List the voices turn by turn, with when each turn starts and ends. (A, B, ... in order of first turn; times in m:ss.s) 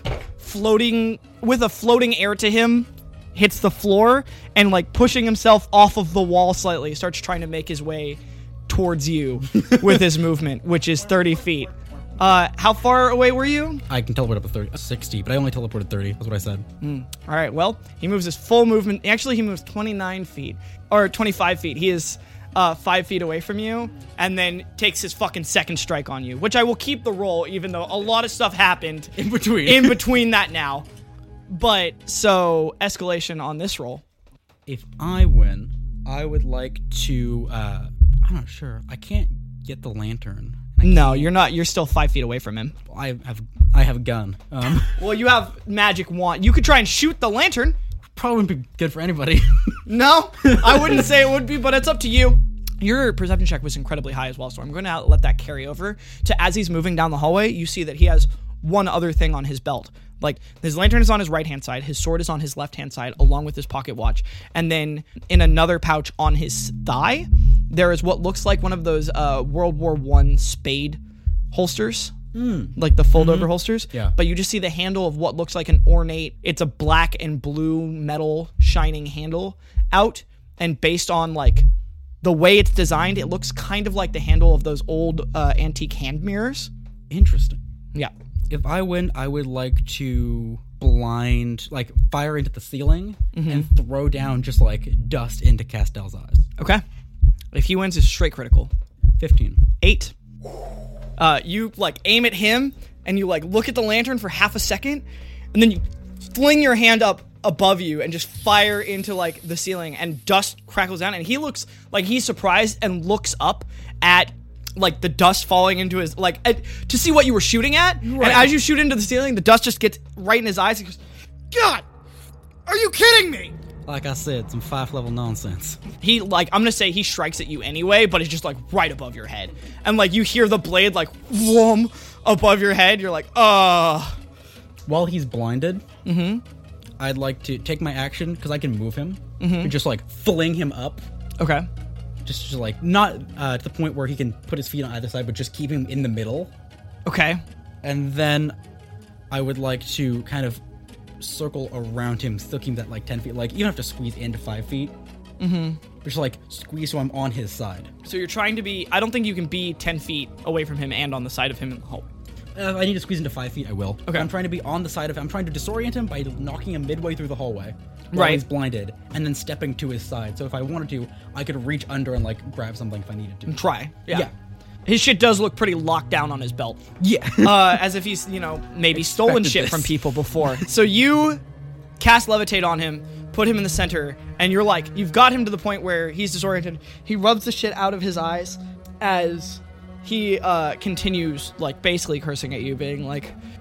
0:00.4-0:13.8 A
0:09.7-0:10.0 B
0:13.9-0:16.7 B
0:16.8-0:30.9 A
0:29.2-0:30.1 B
0:31.5-0:34.0 A
0:34.7-0:41.3 B
0:40.8-0:42.8 A
0:42.9-0:45.0 B
0:45.0-0:47.8 A
0:48.2-0:49.9 B
0:49.9-1:11.0 A
0:50.4-0:51.0 B
1:11.5-1:12.2 A
1:12.3-1:14.2 B
1:12.8-1:21.7 A
1:22.2-1:26.7 A
1:27.1-1:27.6 B
1:28.5-1:36.5 B
1:33.4-1:33.7 A
1:36.6-1:36.8 A
1:37.5-1:38.7 A
1:39.2-1:39.7 B
1:39.8-1:40.1 A
1:41.2-2:01.0 A
1:58.0-1:58.6 B
2:01.5-2:01.9 A
2:02.7-2:03.6 A
2:03.9-2:05.8 B
2:06.0-2:14.2 A
2:14.9-2:15.8 B
2:16.0-2:16.4 A
2:17.0-2:21.0 B
2:19.4-2:19.7 A
2:21.4-2:21.7 A
2:22.2-2:26.5 B
2:27.1-2:27.4 A
2:27.8-2:28.6 B
2:29.3-2:30.6 B
2:31.2-2:34.9 B
2:35.4-2:35.8 A
2:36.0-2:37.9 B
2:38.0-2:42.1 A
2:42.6-2:53.6 B
2:48.1-2:48.4 A
2:53.5-2:54.3 A
2:54.9-2:56.8 A
2:57.0-2:57.9 B
2:57.4-3:01.4 A
2:58.9-3:00.7 B
3:02.0-3:13.4 A